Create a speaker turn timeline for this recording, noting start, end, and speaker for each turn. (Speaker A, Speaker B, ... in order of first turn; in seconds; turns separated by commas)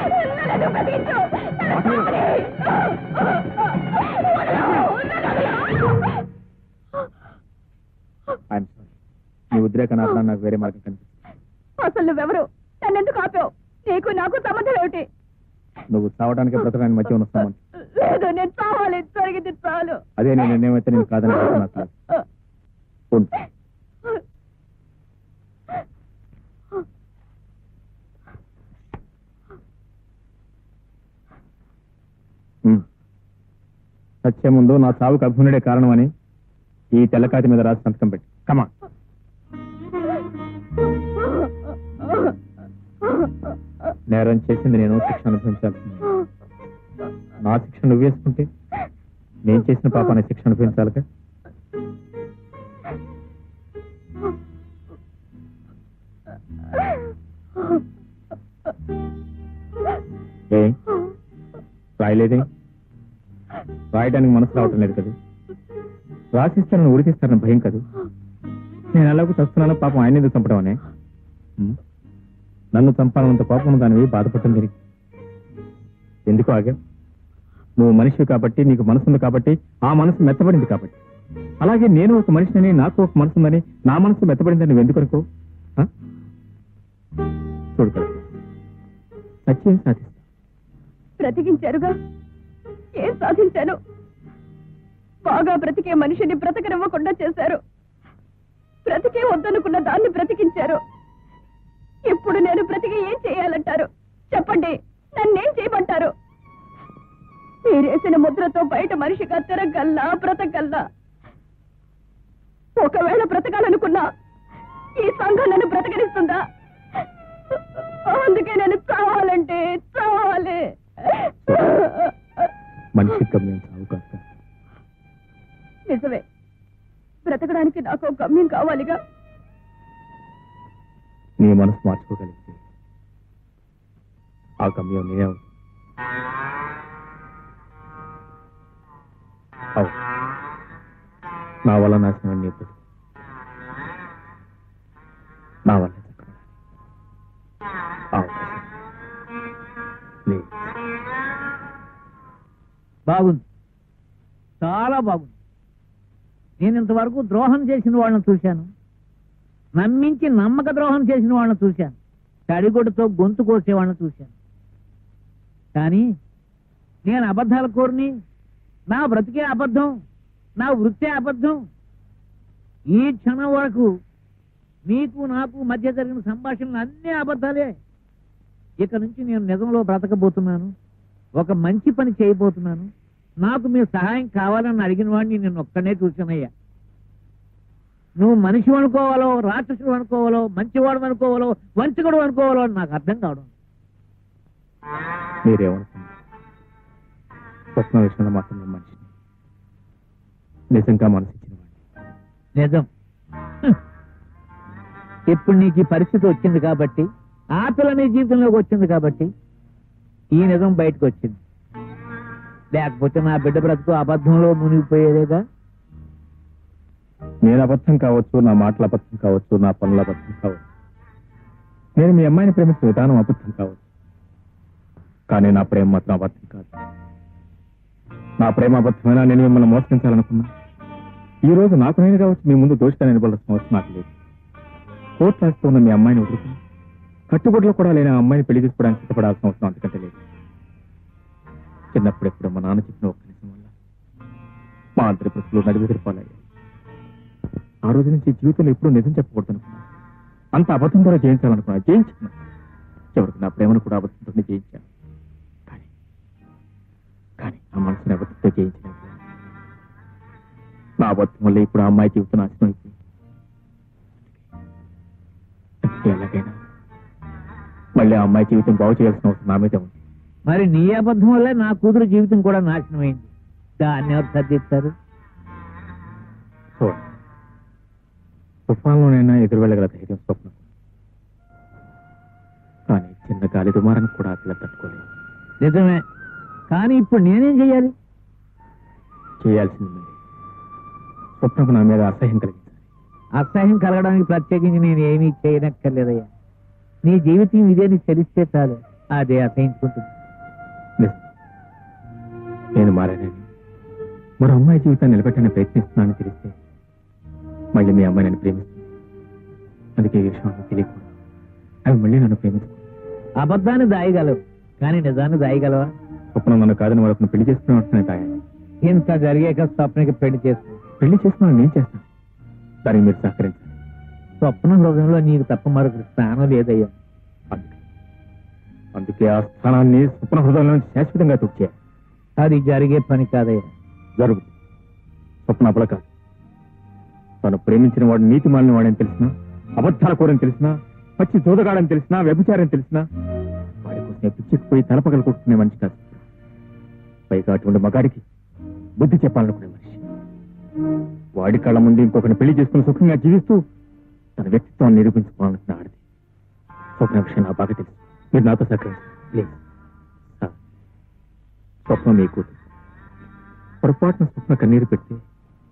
Speaker A: 8.5-8.9, Speaker A: 9.5-11.1, Speaker B: 11.8-15.1, Speaker A: 15.9-17.6, Speaker B: 17.9-20.0, Speaker A: 20.2-21.9, Speaker A: 34.2-36.1, Speaker A: 36.9-38.7, Speaker A: 44.1-46.1, Speaker A: 47.4-48.5, Speaker A: 49.4-51.0, Speaker A: 60.5-60.8, Speaker A: 62.0-62.5, Speaker A: 63.9-65.2, Speaker A: 66.3-67.8, Speaker A: 68.9-70.8, Speaker A: 72.7-74.8, Speaker A: 76.3-76.8, Speaker A: 77.8-81.0, Speaker A: 81.6-85.2, Speaker A: 87.8-88.3, Speaker A: 89.5-90.2, Speaker B: 91.2-91.9, Speaker B: 93.0-93.8, Speaker B: 95.2-97.6, Speaker B: 98.8-100.8, Speaker B: 102.1-106.1, Speaker B: 107.7-110.8, Speaker B: 112.8-114.0, Speaker B: 115.0-116.4, Speaker B: 118.0-122.1, Speaker A: 121.5-121.7, Speaker A: 122.9-124.2, Speaker B: 125.9-126.2, Speaker B: 127.2-129.0, Speaker A: 131.4-132.6, Speaker A: 134.6-135.4, Speaker A: 141.7-142.8, Speaker A: 145.7-146.4, Speaker A: 148.1-148.7, Speaker A: 150.3-150.7, Speaker C: 153.1-153.4, Speaker C: 154.6-155.3, Speaker C: 156.6-158.7, Speaker C: 159.8-161.9, Speaker C: 162.5-164.3, Speaker C: 165.7-166.1, Speaker C: 167.0-168.1, Speaker C: 168.9-169.9, Speaker C: 170.6-171.6, Speaker C: 172.9-173.9, Speaker C: 174.9-177.7, Speaker C: 178.8-180.7, Speaker C: 181.4-182.9, Speaker C: 183.4-186.5, Speaker C: 188.2-193.5, Speaker A: 195.4-196.1, Speaker A: 197.8-199.1, Speaker A: 200.7-201.7, Speaker C: 202.6-202.9, Speaker C: 205.3-209.3, Speaker C: 210.3-211.4, Speaker C: 212.7-215.4, Speaker A: 217.4-220.6, Speaker A: 221.9-223.8, Speaker A: 225.3-226.7, Speaker A: 228.4-230.5, Speaker A: 231.4-234.1, Speaker A: 235.2-236.6, Speaker A: 237.3-240.2, Speaker A: 241.9-243.7, Speaker A: 245.0-246.4, Speaker A: 247.8-249.9, Speaker A: 250.5-252.3, Speaker A: 253.1-254.8, Speaker A: 257.4-259.2, Speaker A: 261.0-262.9, Speaker A: 265.8-266.6, Speaker A: 267.9-270.0, Speaker C: 270.5-273.3, Speaker C: 273.8-274.9, Speaker A: 276.8-277.1, Speaker A: 278.7-280.6, Speaker A: 282.9-285.0, Speaker C: 285.6-286.0, Speaker C: 286.7-287.9, Speaker A: 289.4-290.1, Speaker A: 291.4-292.8, Speaker C: 293.4-296.3, Speaker C: 297.0-300.1, Speaker A: 301.0-301.2, Speaker A: 302.7-303.4, Speaker A: 304.4-306.5, Speaker A: 307.7-308.8, Speaker A: 310.0-311.1, Speaker A: 311.9-312.8, Speaker C: 313.4-315.9, Speaker A: 316.3-318.4, Speaker C: 318.8-320.8, Speaker A: 321.0-322.1, Speaker A: 322.8-323.7, Speaker C: 324.4-326.9, Speaker A: 327.5-327.8, Speaker A: 328.9-331.7, Speaker C: 332.4-333.6, Speaker A: 334.2-334.5, Speaker A: 335.4-336.1, Speaker A: 337.4-343.1, Speaker A: 343.8-346.2, Speaker A: 347.3-348.2, Speaker A: 349.0-350.0, Speaker A: 351.4-353.6, Speaker A: 354.4-356.0, Speaker A: 357.0-359.6, Speaker A: 361.9-362.6, Speaker A: 363.8-365.2